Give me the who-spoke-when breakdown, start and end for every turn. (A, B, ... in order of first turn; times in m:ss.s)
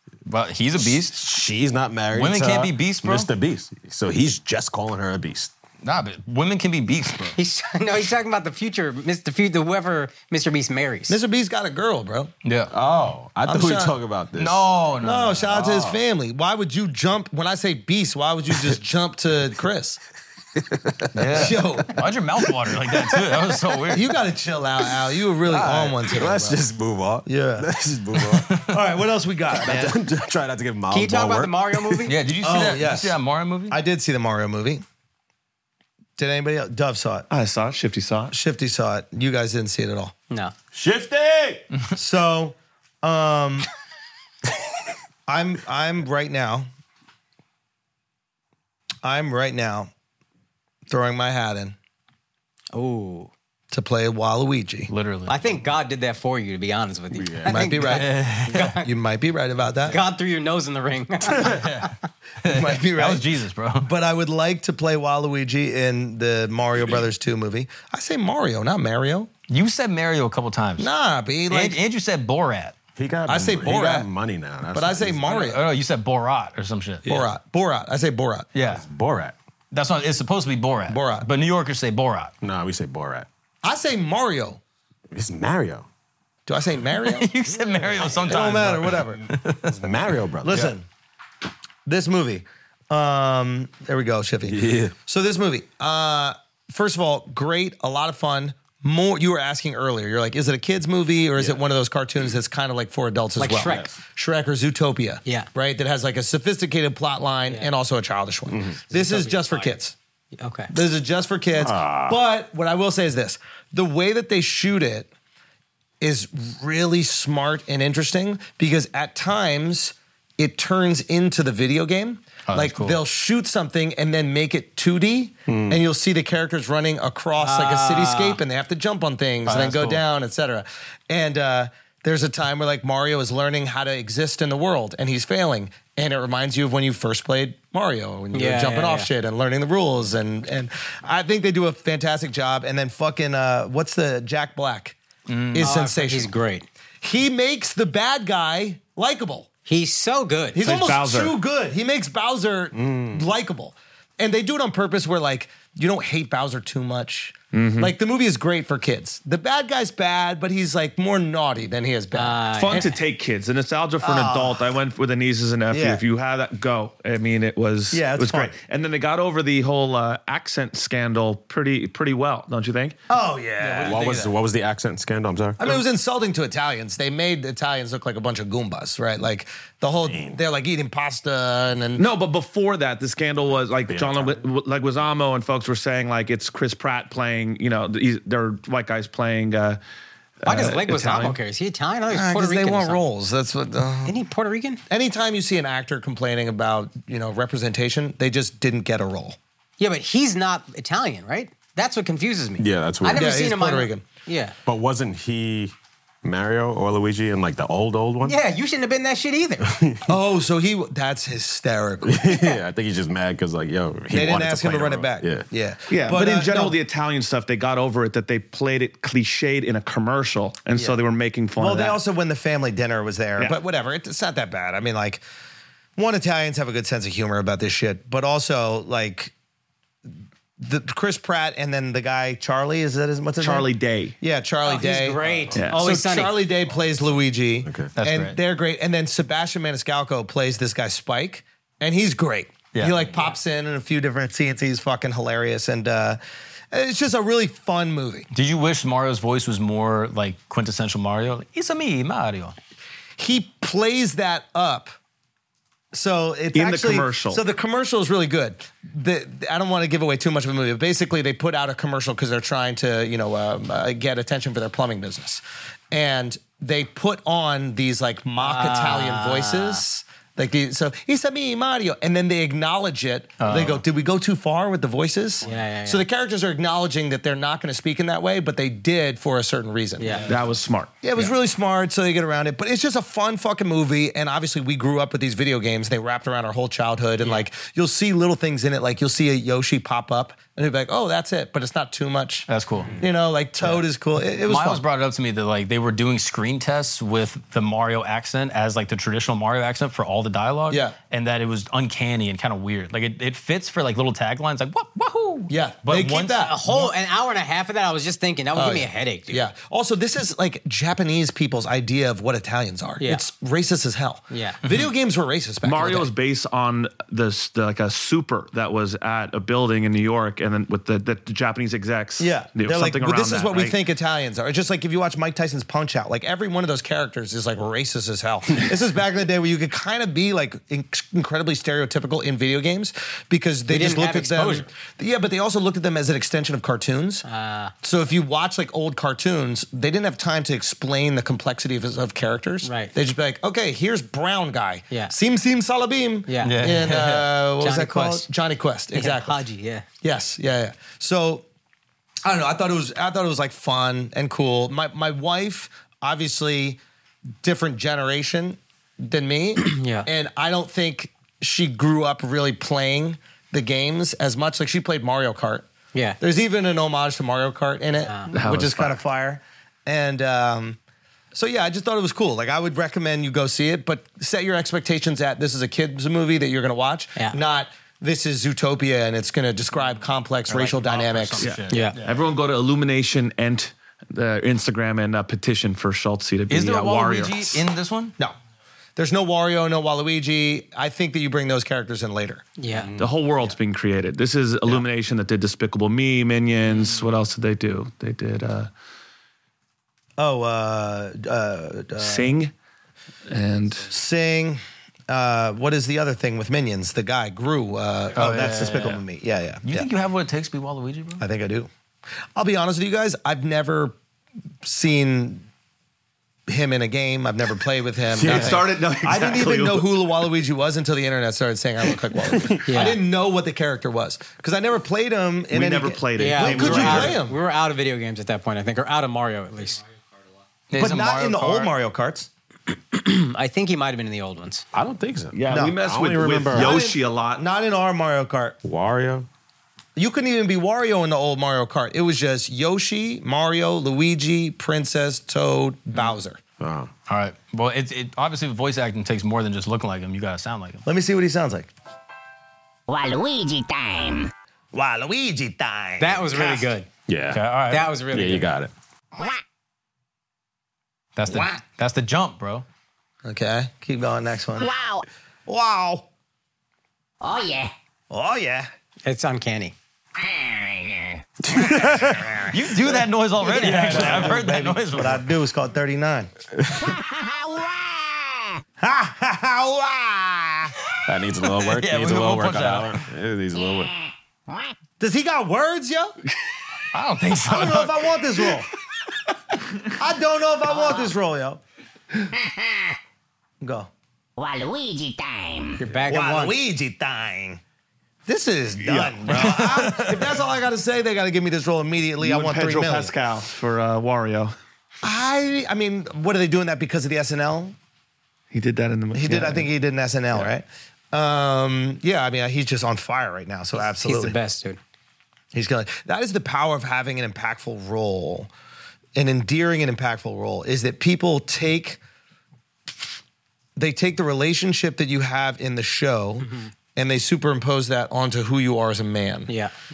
0:00.3-0:01.2 A
0:00.8-0:05.5 B
0:02.1-0:03.3 A
0:05.8-0:07.4 A
0:07.4-0:11.2 C
0:11.1-0:12.3 D
0:12.4-0:12.7 A
0:12.7-0:14.7 B
0:13.4-0:14.0 D
0:14.4-0:15.5 A
0:15.0-0:20.0 D
0:15.5-0:16.0 B
0:20.6-0:21.5 B
0:21.1-0:24.1 A
0:21.3-0:22.0 D
0:23.9-0:26.6 D
0:25.5-0:28.6 B
0:27.3-0:27.7 D
0:28.3-0:28.8 A
0:28.6-0:30.0 D
0:29.5-0:32.1 B
0:30.9-0:32.2 C
0:32.1-0:33.8 A
0:32.4-0:33.2 D
0:33.7-0:34.8 D
0:36.2-0:37.3 D
0:37.3-0:38.3 E
0:38.3-0:40.1 D
0:40.7-0:41.6 B
0:42.0-0:43.7 D
0:45.3-0:46.7 D
0:49.0-0:49.9 D
0:50.9-0:51.8 D
0:52.7-0:53.3 C
0:53.7-0:54.9 D
0:54.9-0:55.4 A
0:55.3-0:58.9 C
0:57.1-0:57.6 B
0:57.4-1:00.0 D
0:57.9-0:58.8 A
0:59.8-1:01.9 C
1:01.3-1:03.9 A
1:02.4-1:03.3 D
1:03.8-1:09.3 D
1:09.5-1:10.9 A
1:10.8-1:11.8 D
1:11.5-1:12.8 A
1:13.0-1:15.2 B
1:13.3-1:14.1 D
1:14.7-1:15.6 D
1:15.3-1:17.2 A
1:17.1-1:18.5 D
1:18.5-1:18.8 A
1:18.7-1:19.4 B
1:19.7-1:22.3 A
1:20.9-1:21.3 D
1:22.4-1:23.3 B
1:23.6-1:24.6 D
1:25.1-1:25.9 B
1:26.5-1:27.3 D
1:27.0-1:29.8 A
1:27.8-1:28.9 B
1:28.2-1:29.2 D
1:29.7-1:30.7 B
1:30.4-1:30.8 D
1:31.9-1:50.0 D
1:34.5-1:34.9 B
1:43.4-1:43.9 C
1:43.6-1:44.0 B
1:48.5-1:48.8 B
1:48.9-1:49.8 C
1:50.4-1:50.7 C
1:50.7-1:55.1 D
1:51.6-1:52.2 B
1:56.0-2:25.0 D
2:02.5-2:03.0 A
2:05.5-2:05.8 B
2:07.4-2:08.4 C
2:09.5-2:10.0 A
2:18.3-2:19.1 C
2:25.3-2:25.7 A
2:25.5-2:26.3 D
2:25.6-2:26.7 C
2:27.0-2:29.5 D
2:29.7-2:30.6 C
2:30.6-2:43.0 D
2:30.6-2:31.3 E
2:32.8-2:33.2 B
2:37.5-2:37.9 E
2:42.2-2:43.0 C
2:42.6-2:53.0 E
2:44.0-2:44.7 D
2:45.7-2:46.0 D
2:47.9-2:48.5 D
2:53.1-2:54.0 D
2:53.6-2:54.3 A
2:53.8-2:55.8 B
2:55.6-3:02.1 D
3:00.1-3:00.4 B
3:02.0-3:09.8 E
3:03.9-3:04.5 B
3:10.4-3:11.4 E
3:10.4-3:13.0 C
3:12.1-3:14.2 D
3:14.1-3:14.8 C
3:14.9-3:19.4 D
3:19.8-3:24.6 C
3:22.6-3:23.4 B
3:23.1-3:24.0 D
3:24.7-3:28.4 B
3:28.2-3:29.7 C
3:29.7-3:30.0 B
3:30.1-3:32.6 D
3:32.0-3:35.5 B
3:34.1-3:36.8 D
3:35.9-3:42.0 E
3:41.6-3:45.2 D
3:46.0-3:49.3 D
3:50.6-3:55.2 D
3:53.4-3:54.2 E
3:54.6-3:56.4 C
3:55.2-3:55.6 B
3:55.7-4:06.2 D
3:57.6-3:57.9 B
3:58.0-3:58.4 A
4:06.7-4:08.3 D
4:08.3-4:12.6 A
4:13.2-4:14.9 D
4:15.9-4:40.3 D
4:16.5-4:17.4 E
4:28.4-4:29.8 C
4:33.4-4:33.8 A
4:35.4-4:36.0 C
4:40.0-4:40.3 C
4:40.3-4:41.0 E
4:41.0-4:52.5 D
4:52.5-4:52.9 A
4:53.0-4:54.8 D
4:54.4-5:06.9 A
5:00.7-5:01.0 D
5:05.5-5:06.6 D
5:06.4-5:09.4 C
5:08.5-5:16.1 D
5:14.3-5:14.6 C
5:15.6-5:23.8 E
5:22.2-5:37.2 D
5:33.7-5:34.7 C
5:37.2-5:37.7 C
5:37.8-5:49.4 D
5:42.6-5:42.9 C
5:46.3-5:46.6 C
5:46.4-5:47.4 A
5:47.6-5:48.3 C
5:48.9-5:49.9 C
5:50.0-5:51.4 D
5:52.2-5:56.8 D
5:57.4-6:05.7 D
5:59.6-6:00.1 C
6:06.2-6:10.8 D
6:08.0-6:08.3 C
6:08.3-6:09.0 E
6:11.3-6:21.5 D
6:20.5-6:22.2 A
6:21.4-6:27.6 E
6:21.7-6:22.0 C
6:26.5-6:28.2 A
6:29.0-6:32.4 D
6:32.6-6:32.9 C
6:32.7-6:33.2 B
6:33.0-6:38.7 E
6:40.2-6:42.4 D
6:42.0-6:42.5 E
6:43.3-6:43.9 E
6:43.9-6:49.9 D
6:48.2-6:49.0 A
6:49.6-6:51.2 A
6:51.2-6:51.7 D
6:52.4-6:54.0 D
6:54.6-6:55.4 D
6:56.5-7:07.4 D
6:58.2-6:59.9 E
6:58.2-6:58.6 B
7:02.7-7:03.0 C
7:05.5-7:07.2 E
7:06.2-7:09.8 C
7:10.7-7:11.7 A
7:10.7-7:12.3 D
7:12.9-7:14.6 C
7:14.7-7:16.8 B
7:15.3-7:17.4 E
7:15.5-7:15.8 D
7:16.5-7:18.6 D
7:18.6-7:19.3 B
7:20.0-7:26.4 D
7:26.6-7:26.9 B
7:27.1-7:30.8 A
7:30.8-7:31.7 D
7:32.9-7:34.3 F
7:34.7-7:36.7 D
7:36.0-7:36.9 C
7:37.1-7:37.4 B
7:37.3-7:37.9 A
7:37.7-7:38.5 C
7:38.1-7:38.7 B
7:41.2-7:42.6 A
7:43.2-7:44.7 D
7:44.6-7:45.1 F
7:45.5-7:46.1 D
7:47.2-7:47.7 F
7:48.1-7:48.7 D
7:49.1-7:49.8 C
7:50.2-7:51.2 F
7:51.5-7:52.4 B
7:51.6-7:52.5 D
7:52.5-7:55.2 A
7:53.4-7:56.3 D
7:53.6-7:54.4 B
7:56.6-7:56.9 B
7:56.8-7:58.6 F
7:58.8-8:00.7 D
8:01.1-8:03.9 B
8:01.6-8:03.1 A
8:03.6-8:04.7 F
8:05.0-8:06.2 D
8:06.9-8:08.5 A
8:07.4-8:08.7 D
8:09.9-8:11.6 D
8:12.3-8:13.0 F
8:13.6-8:13.9 D
8:14.4-8:15.9 F
8:15.8-8:16.6 C
8:16.1-8:17.6 D
8:18.3-8:23.1 D
8:18.8-8:19.7 E
8:19.3-8:20.1 A
8:22.2-8:24.5 E
8:25.0-8:27.8 D
8:28.5-8:29.7 E
8:29.1-8:34.4 D
8:33.8-8:34.8 C
8:35.5-8:38.5 D
8:39.2-8:42.0 D
8:43.8-8:49.5 D